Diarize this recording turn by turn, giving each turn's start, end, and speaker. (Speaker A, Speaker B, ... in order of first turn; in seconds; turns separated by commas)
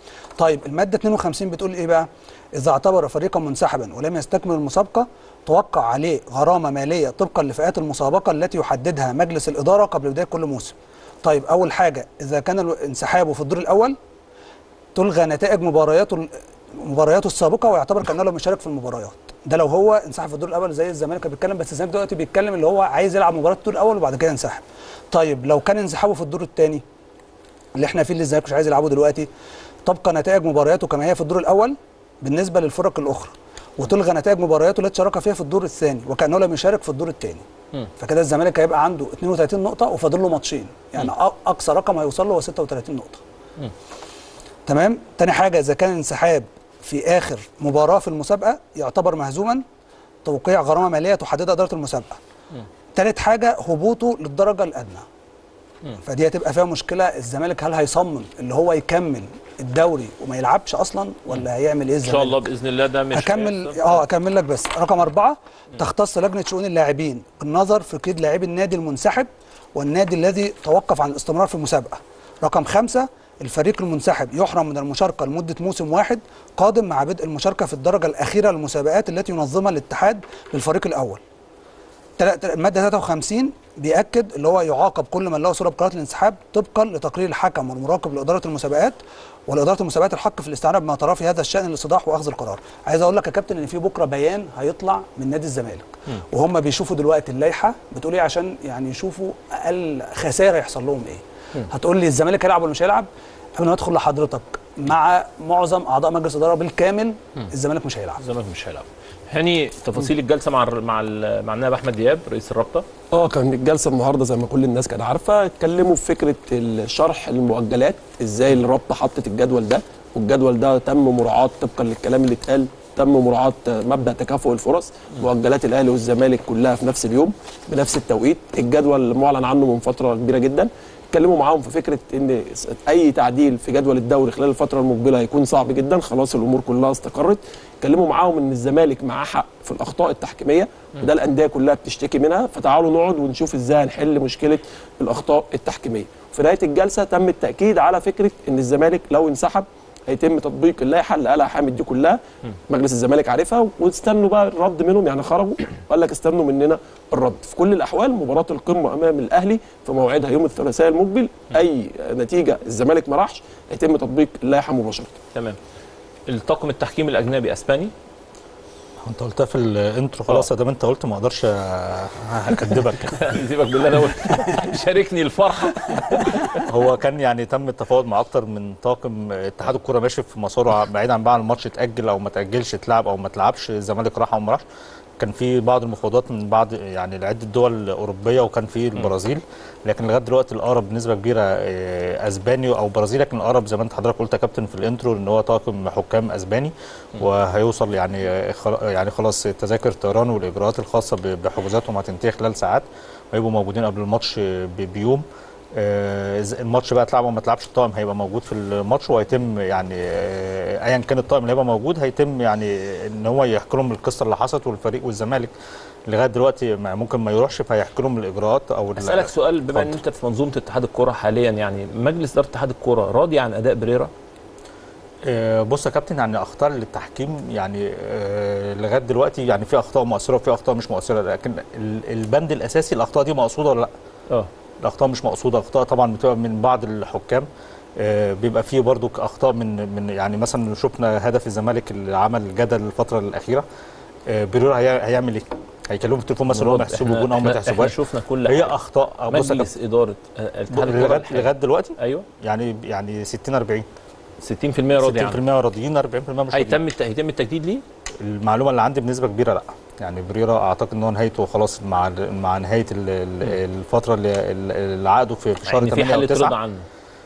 Speaker A: 0.4-14.0, Speaker A: 14.9-26.8, Speaker A: 27.8-29.3, Speaker A: 29.9-37.4, Speaker A: 38.0-43.2, Speaker A: 44.7-49.6, Speaker A: 50.2-52.2, Speaker A: 53.0-55.0, Speaker A: 56.0-62.4, Speaker B: 62.0-64.0, Speaker A: 63.1-81.2, Speaker A: 82.2-108.2, Speaker B: 108.2-112.9, Speaker C: 113.1-165.2, Speaker B: 166.3-167.9, Speaker D: 169.0-173.4, Speaker B: 172.5-176.7, Speaker D: 176.7-184.6, Speaker D: 185.2-215.5, Speaker D: 216.1-219.9, Speaker B: 219.0-224.1, Speaker D: 225.3-233.9, Speaker D: 234.8-243.7, Speaker D: 244.3-249.7, Speaker B: 246.5-248.8, Speaker B: 249.3-252.3, Speaker D: 250.7-253.9, Speaker B: 254.4-255.4, Speaker D: 255.0-256.8, Speaker B: 256.5-257.8, Speaker D: 258.2-266.6, Speaker B: 265.7-266.9